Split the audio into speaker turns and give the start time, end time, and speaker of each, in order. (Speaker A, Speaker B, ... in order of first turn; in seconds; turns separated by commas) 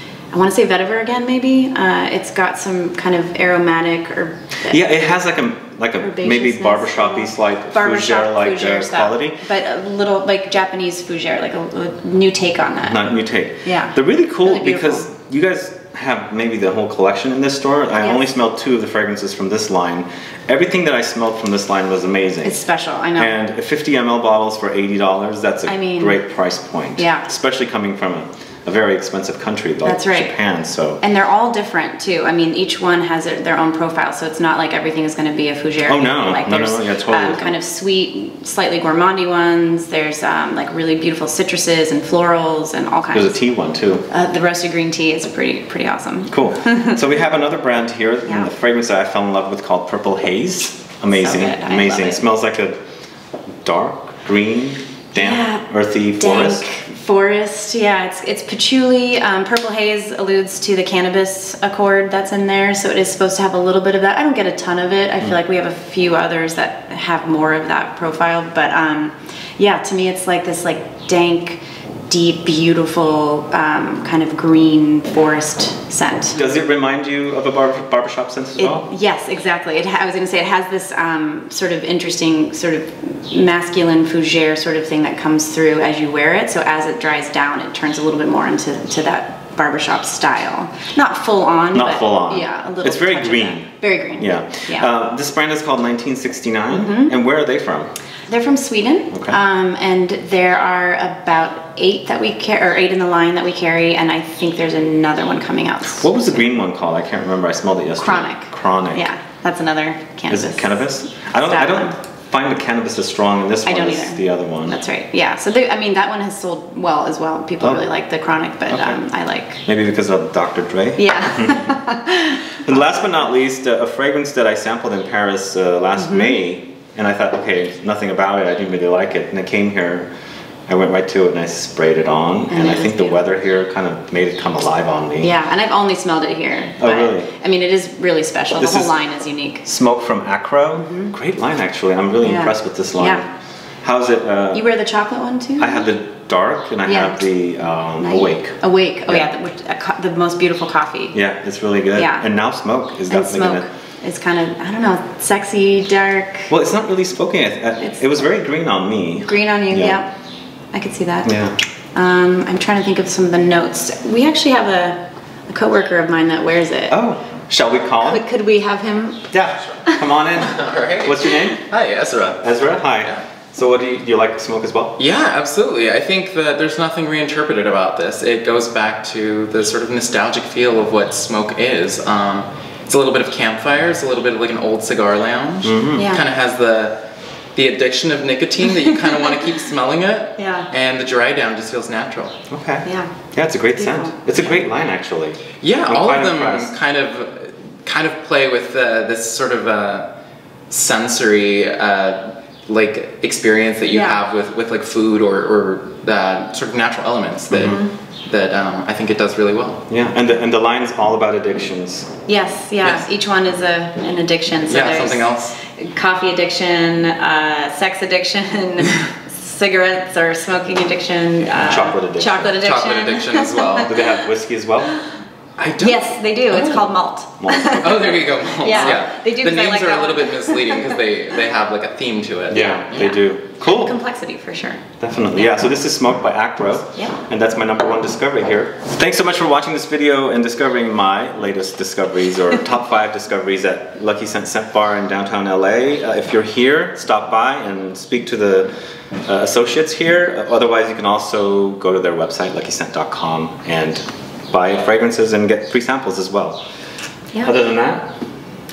Speaker A: 0.3-4.8, Speaker B: 4.7-9.4, Speaker A: 6.0-13.1, Speaker B: 12.8-22.6, Speaker A: 13.6-15.1, Speaker A: 18.0-18.2, Speaker A: 22.4-23.3, Speaker B: 23.1-31.0, Speaker A: 25.7-26.2, Speaker A: 27.0-27.3, Speaker A: 29.8-30.3, Speaker A: 31.0-43.4, Speaker B: 35.8-37.6, Speaker B: 43.1-44.1, Speaker A: 44.1-47.0, Speaker B: 46.3-52.8, Speaker A: 51.1-52.2, Speaker B: 53.6-56.6, Speaker A: 55.1-55.6, Speaker A: 56.2-76.3, Speaker B: 76.3-78.9, Speaker A: 78.6-94.9, Speaker B: 91.7-97.9, Speaker A: 96.7-97.1, Speaker A: 98.3-106.2, Speaker B: 99.1-99.4, Speaker B: 105.9-109.0, Speaker A: 108.0-111.9, Speaker B: 110.3-114.8, Speaker A: 113.6-119.6, Speaker B: 117.6-117.8, Speaker B: 118.7-119.0, Speaker B: 119.6-121.8, Speaker A: 121.0-123.0, Speaker B: 122.6-130.1, Speaker A: 126.0-126.4, Speaker B: 130.7-135.3, Speaker A: 132.5-133.2, Speaker A: 135.2-139.7, Speaker B: 136.8-137.3, Speaker B: 138.6-138.9, Speaker B: 139.6-143.3, Speaker A: 140.8-141.1, Speaker A: 142.2-143.2, Speaker B: 143.8-144.7, Speaker A: 144.5-145.9, Speaker B: 145.6-149.3, Speaker A: 146.8-147.3, Speaker A: 148.0-151.2, Speaker B: 151.1-153.6, Speaker A: 151.9-152.3, Speaker A: 153.1-156.5, Speaker B: 156.5-160.0, Speaker A: 159.2-160.1, Speaker A: 160.7-161.3, Speaker B: 161.2-161.6, Speaker A: 161.9-167.0, Speaker B: 166.9-168.2, Speaker A: 168.0-169.3, Speaker B: 169.3-171.7, Speaker C: 170.3-172.4, Speaker B: 172.4-175.0, Speaker C: 175.0-187.0, Speaker B: 185.6-186.1, Speaker A: 185.9-186.2, Speaker C: 187.5-192.3, Speaker A: 190.4-190.7, Speaker B: 192.5-196.7, Speaker A: 192.8-193.1, Speaker A: 193.8-194.1, Speaker C: 195.6-200.1, Speaker C: 200.7-209.8, Speaker A: 203.9-204.2, Speaker B: 207.5-207.8, Speaker A: 207.6-207.9, Speaker B: 209.9-212.1, Speaker A: 212.3-224.1, Speaker C: 212.8-213.1, Speaker C: 214.7-215.5, Speaker B: 221.5-222.5, Speaker C: 222.6-224.0, Speaker B: 223.8-225.0, Speaker C: 225.6-226.9, Speaker A: 225.8-230.9, Speaker B: 227.4-228.1, Speaker C: 227.7-233.1, Speaker B: 232.5-233.9, Speaker A: 232.5-234.8, Speaker B: 235.0-248.7, Speaker B: 249.2-256.6, Speaker B: 257.4-258.1